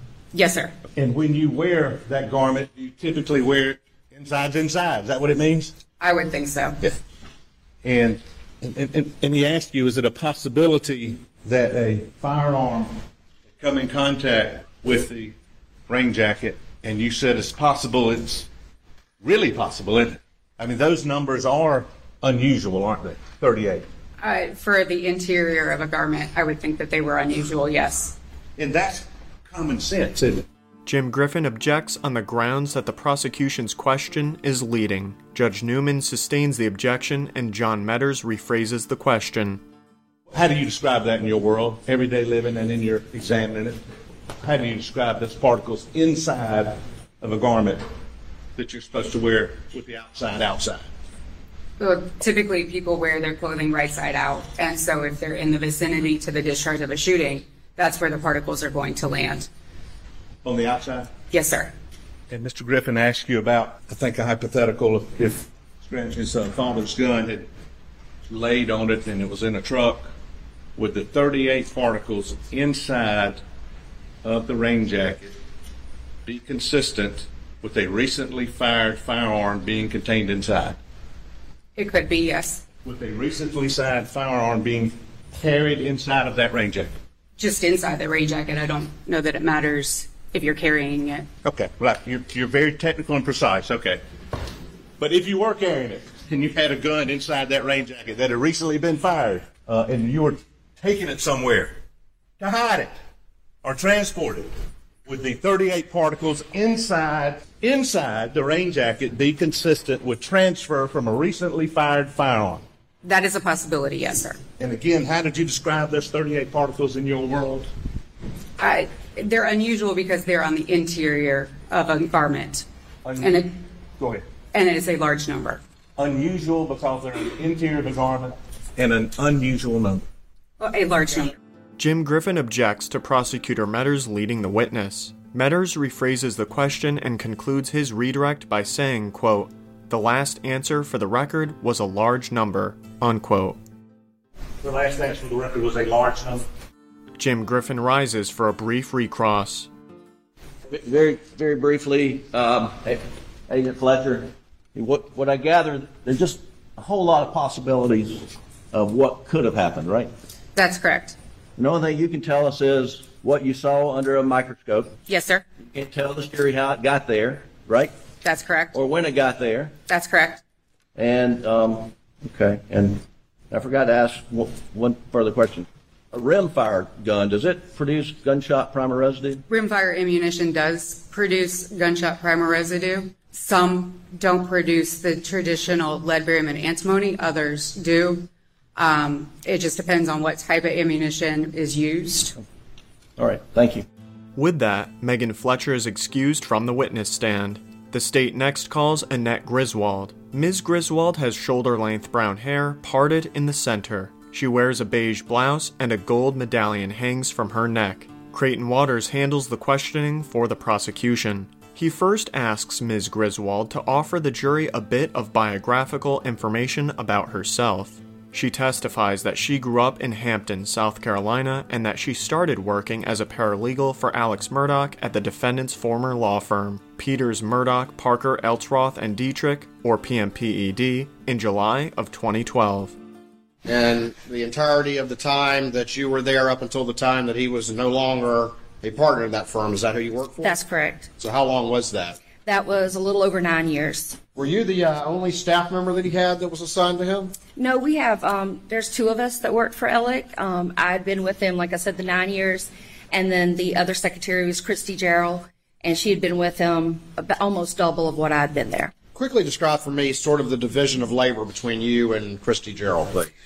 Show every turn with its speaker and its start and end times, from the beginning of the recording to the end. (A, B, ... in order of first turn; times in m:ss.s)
0:00.3-0:00.8 A
0:01.0-0:05.7 B
0:06.0-0:06.8 A
0:07.8-0:13.0 B
0:13.6-0:15.4 B
0:15.9-0:18.5 B
0:19.2-0:23.9 B
0:24.2-0:28.2 A
0:28.6-0:30.5 B
0:30.9-0:39.6 C
0:40.3-0:43.8 B
0:44.4-0:47.8 B
0:48.6-0:50.9 B
0:51.8-0:59.5 A
1:00.4-1:01.1 B
1:01.3-1:01.7 A
1:02.3-1:07.5 B
1:08.3-1:10.1 B
1:10.8-1:13.4 B
1:14.2-1:15.4 B
1:16.3-1:20.8 B
1:21.8-1:22.6 A
1:22.8-1:26.9 B
1:27.4-1:31.3 A
1:31.4-1:34.0 B
1:35.0-1:41.7 B
1:42.4-1:42.9 B
1:43.6-1:44.5 B
1:45.1-1:52.6 B
1:53.0-1:54.4 A
1:54.6-1:57.7 B
1:58.6-2:02.7 A
2:03.0-2:03.5 B
2:03.2-2:03.5 A
2:04.0-2:04.2 B
2:04.5-2:05.6 A
2:06.0-2:10.0 B
2:10.6-2:11.4 A
2:11.8-2:23.6 C
2:24.6-2:26.5 B
2:27.2-2:29.7 C
2:30.7-2:40.1 D
2:40.6-2:41.2 A
2:41.6-2:44.9 D
2:45.1-2:45.4 A
2:45.7-2:47.9 D
2:48.2-2:48.8 A
2:48.7-2:49.7 D
2:49.9-2:50.4 A
2:51.0-2:59.4 D
2:59.5-3:12.4 A
3:13.2-3:13.9 D
3:14.4-3:53.0 C
3:53.6-4:00.6 E
4:00.4-4:01.1 F
4:01.2-4:02.2 E
4:02.5-4:04.2 F
4:04.4-4:07.4 E
4:07.6-4:18.9 F
4:19.2-4:23.3 E